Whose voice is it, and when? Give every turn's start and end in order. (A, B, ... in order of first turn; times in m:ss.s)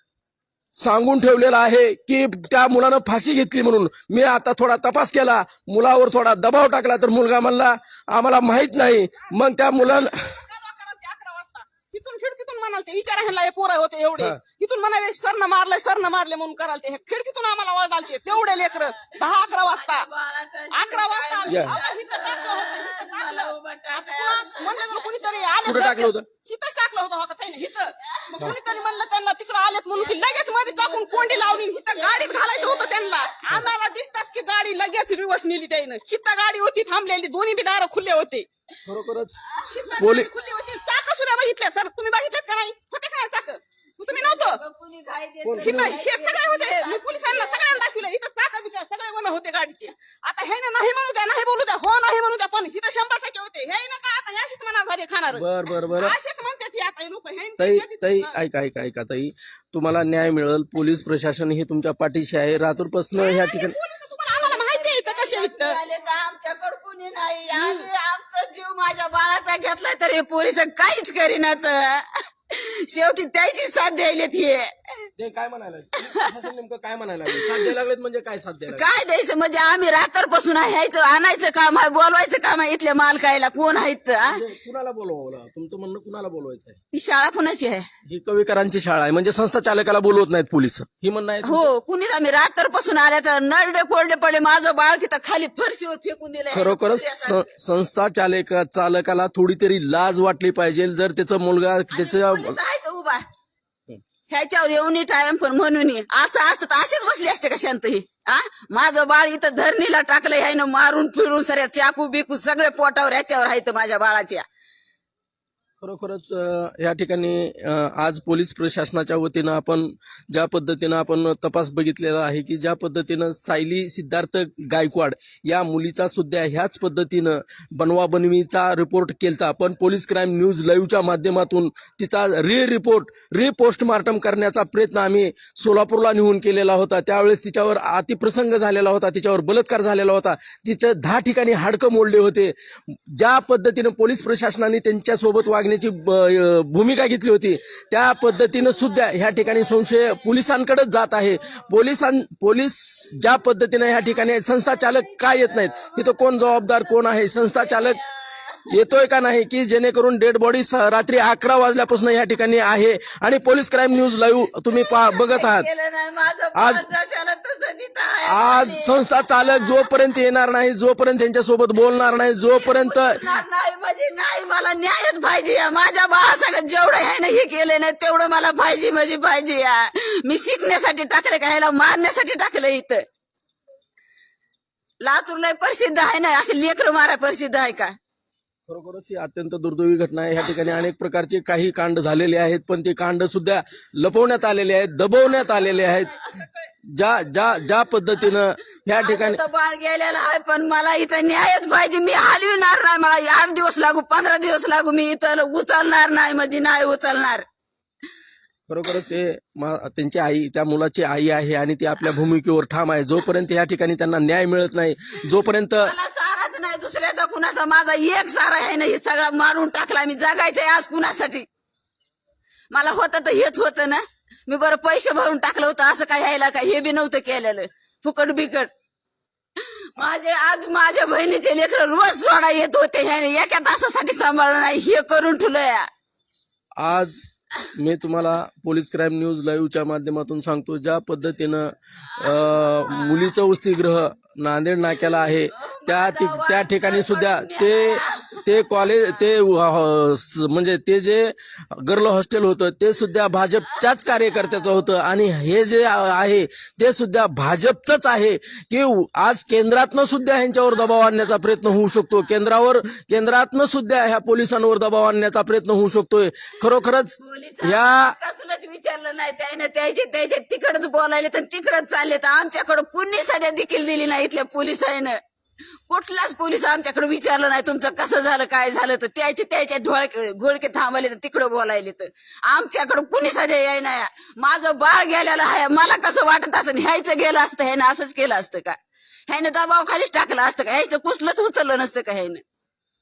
0:00.7-0:10.4 A
0:10.3-0:20.1 B
0:18.4-0:25.7 C
0:20.7-0:38.5 B
0:21.4-0:21.8 A
0:25.6-0:26.3 A
0:28.1-0:28.8 C
0:29.9-0:33.6 C
0:38.8-0:40.3 A
0:39.5-0:40.0 C
0:39.7-0:44.6 B
0:44.1-0:48.0 C
0:45.4-0:46.0 A
0:45.6-0:58.4 B
0:55.3-0:56.1 A
0:57.6-1:03.8 A
1:03.2-1:05.8 B
1:04.4-1:15.1 C
1:07.5-1:07.8 B
1:15.2-1:18.8 A
1:18.7-1:24.4 C
1:24.2-1:26.8 A
1:26.9-1:27.9 C
1:28.0-1:31.7 A
1:31.4-1:37.4 C
1:36.5-1:42.6 A
1:41.9-1:43.2 C
1:44.3-1:54.4 C
1:55.8-2:38.0 A
2:38.7-2:45.7 A
2:44.7-2:49.9 C
2:46.5-2:46.8 A
2:48.2-2:53.3 A
2:52.5-3:03.0 C
3:05.0-3:08.0 C
3:08.7-3:16.1 A
3:16.9-3:19.4 A
3:19.0-3:27.4 C
3:28.7-3:35.9 A
3:35.8-3:41.5 C
3:42.7-3:48.7 C
3:49.6-3:55.9 C
3:56.8-4:28.2 A
4:02.2-4:03.3 C
4:05.2-4:08.5 C
4:27.2-4:35.2 C
4:35.9-4:48.8 C
4:49.3-4:52.4 C